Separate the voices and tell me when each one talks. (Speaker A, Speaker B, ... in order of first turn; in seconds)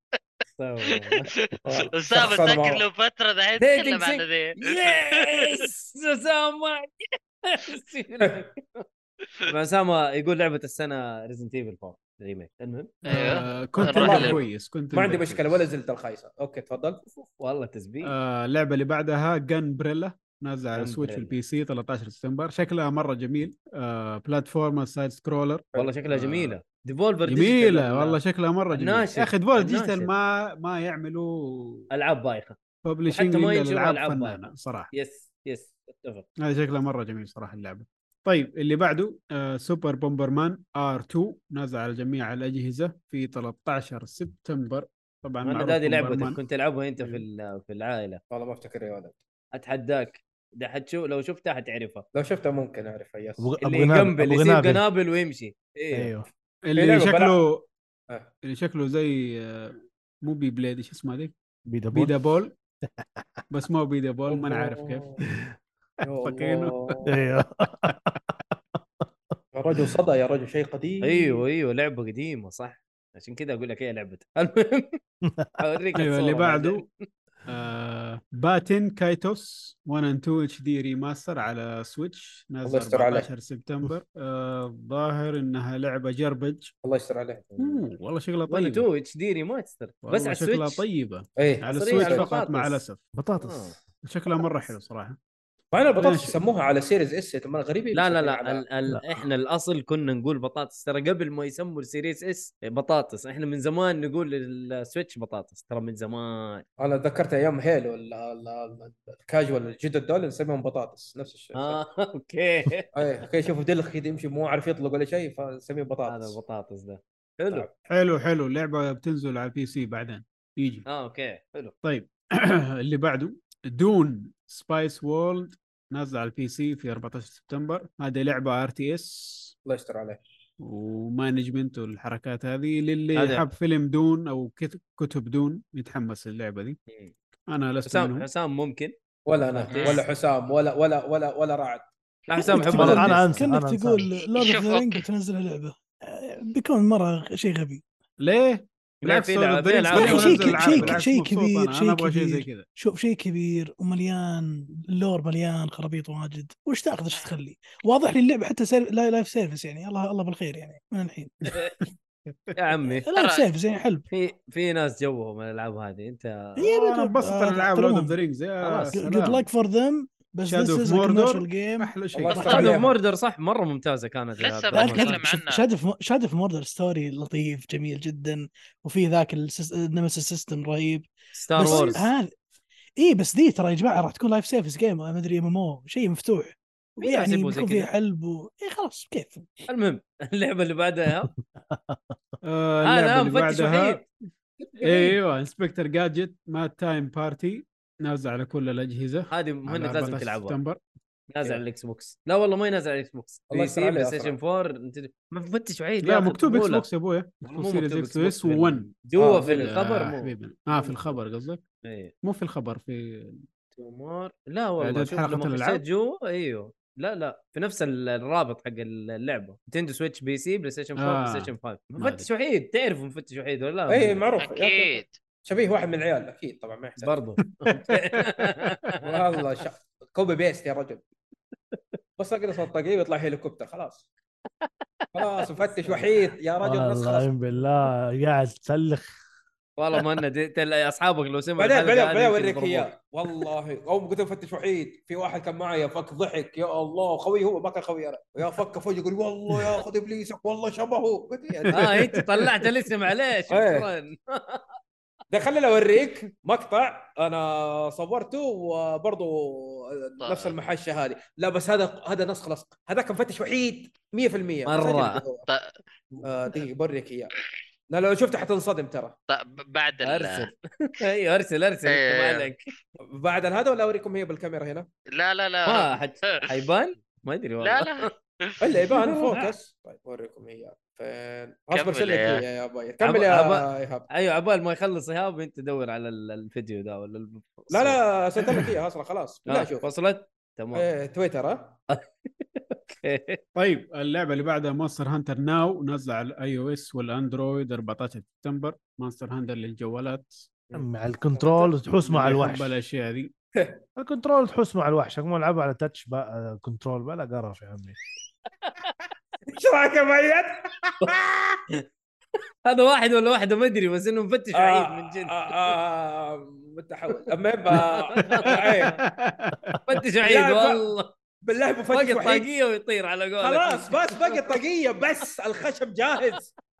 Speaker A: 0.6-1.3, 3.6-8.8, 9.5-14.3, 17.1-18.1, 20.8-21.3, 25.8-28.2, 28.7-30.1, 31.9-32.6, 33.1-36.2, 45.4-48.2, 49.5-52.0, 53.6-56.1, 71.0-75.0, 75.6-76.9, 87.5-87.8, 88.5-90.8, 91.8-92.8, 93.4-93.8, 97.9-106.6, 111.5-112.9, 116.1-117.7, 120.8-121.7, 133.2-133.4, 137.9-140.0, 142.3-143.4, 149.0-151.0, 162.6-163.1, 164.1-166.6, 172.4-175.2, 181.3-182.1, 187.0-187.9, 189.7-191.3, 192.8-194.0, 199.3-200.6, 201.3-206.8, 207.4-210.3, 211.8-212.1, 213.7-224.3, 227.0-229.2, 234.7-236.2, 239.8-242.9, 251.7-254.6, 264.6-265.2, 270.0-272.6, 275.6-278.1, 278.9-279.5, 283.0-288.0, 289.5-290.9, 291.9-293.4, 312.6-315.7, 317.7-318.9, 319.9-321.1, 321.9-324.6
Speaker B: 0.9-5.6, 13.0-14.4, 139.8-140.0, 144.3-145.0, 163.1-163.4, 174.4-175.6, 224.4-225.2, 260.2-260.5, 265.4-265.7, 269.3-270.5, 271.8-272.5, 275.1-276.5, 277.6-278.6, 281.7-282.4
Speaker C: 1.6-2.8, 13.9-17.0, 48.3-49.2, 52.1-53.5, 56.8-57.4, 64.3-65.2, 66.0-67.1, 69.5-71.4, 82.6-83.3, 86.8-87.5, 91.3-92.3, 95.7-98.6, 106.8-111.8, 112.9-116.4, 129.6-130.2, 139.2-142.9, 172.1-172.9, 203.5-204.3, 209.2-209.7, 223.9-227.1, 229.1-231.0, 232.2-234.1, 235.1-237.3, 241.6-251.8, 253.5-253.9, 255.3-265.4, 266.2-267.3, 267.9-269.1, 273.1-274.9, 278.6-284.1, 287.7-289.9, 290.7-291.8, 300.7-302.4, 309.5-311.6, 314.5-319.0, 320.2-320.9, 321.4-322.5, 323.4-326.5
Speaker D: 13.1-15.7, 18.0-26.6, 27.2-31.9, 32.8-34.9, 36.4-46.4, 47.0-47.2, 56.6-57.7, 58.4-61.3, 61.9-62.5, 63.5-65.1, 66.1-66.7, 75.9-76.8, 77.5-86.7, 87.6-88.9, 90.0-93.0, 94.0-95.2, 96.0-96.3, 117.9-120.8, 121.8-129.5, 130.6-136.8, 137.5-138.3, 148.2-152.6, 162.3-162.6, 166.6-169.5, 170.5-172.8, 192.4-194.0, 194.8-200.8, 206.0-211.6, 212.2-213.4, 214.8-215.8, 220.9-222.3, 228.1-228.9, 251.6-252.6, 293.5-300.4, 302.1-303.3, 318.8-319.8
Speaker E: 53.4-54.8, 55.9-56.3, 61.7-62.2, 67.0-68.2, 75.3-75.6, 93.2-93.8, 98.9-99.3, 142.7-144.1, 191.5-192.2, 236.6-239.2, 300.7-302.8, 304.0-307.9
Speaker F: 142.5-147.8, 149.9-161.4, 163.1-164.1, 166.6-168.1, 168.8-172.6, 174.7-182.3, 183.0-189.5